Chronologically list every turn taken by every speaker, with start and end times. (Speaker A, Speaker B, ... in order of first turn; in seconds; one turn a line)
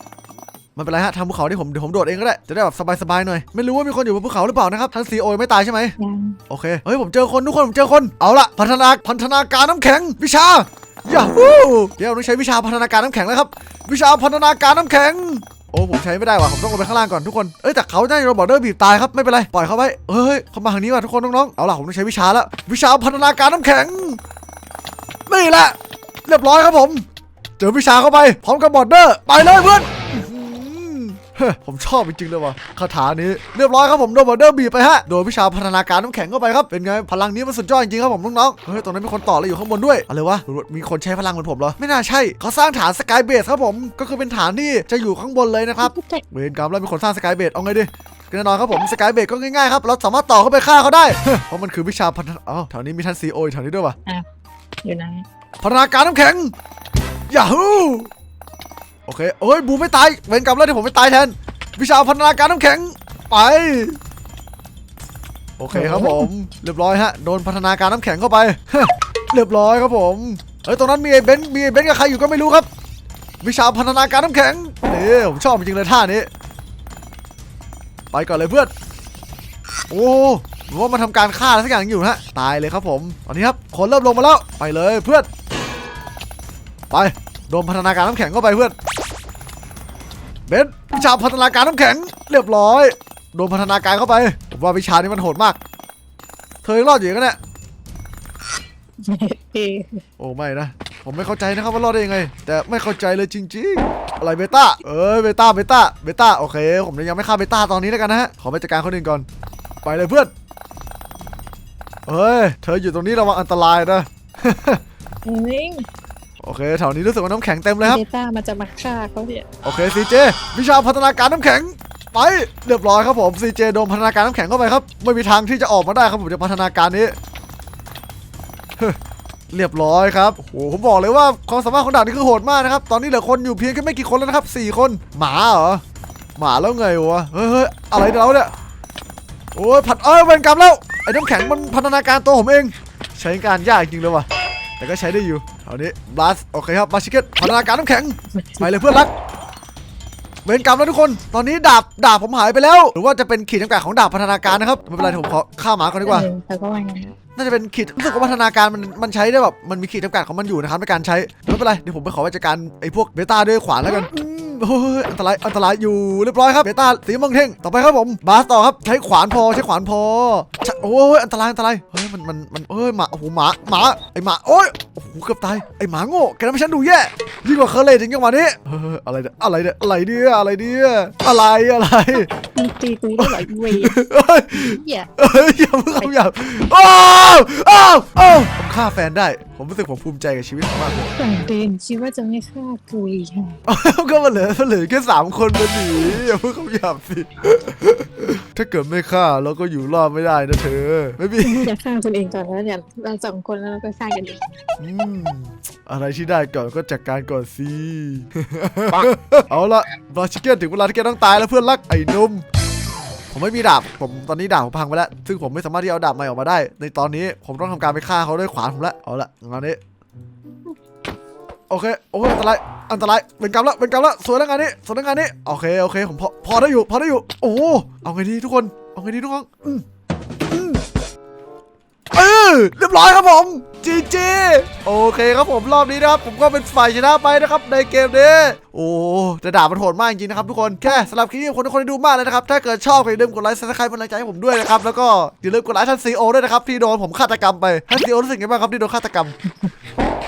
Speaker A: 0.8-6.0
Speaker B: 6.0-6.4
Speaker A: 6.5-24.2
Speaker A: 25.3-25.8
Speaker A: 26.3-27.1
Speaker A: 27.6-54.0
Speaker B: 45.8-46.2
Speaker B: 54.8-55.2
Speaker A: 55.6-56.5
Speaker A: 57.3-58.1
Speaker A: 59.1-64.0
Speaker A: 65.6-72.7
Speaker B: 65.7-66.3
Speaker A: 73.4-76.3
Speaker A: 78.1-78.7
Speaker A: 79.9-85.3
Speaker A: 86.9-88.8
Speaker A: 90.5-95.6
Speaker A: 96.6-97.4
Speaker B: 99.0-100.0
Speaker A: 100.2-109.2
Speaker A: 109.8-110.3
Speaker A: 112.1-114.8
Speaker B: 115.2-115.9
Speaker A: 116.4-118.0
Speaker B: 117.8-119.5
Speaker A: 119.7-127.2
Speaker A: 129.5-135.8
Speaker A: 136.4-138.5
Speaker A: 139.6-144.3
Speaker A: 144.8-149.1
Speaker B: 148.4-148.7
Speaker A: 150.4-156.3
Speaker B: 156.1-157.2
Speaker A: 157.3-182.3
Speaker B: 182.4-184.0
Speaker A: 183.2-191.1
Speaker B: 184.6-185.1
Speaker B: 191.1-193.6
Speaker A: 193.7-201.7
Speaker B: 201.4-204.6
Speaker A: 204.8-212.4
Speaker A: 213.3-219.8
Speaker A: 221.7-229.8
Speaker A: 230.5-230.8
Speaker A: 232.1-249.3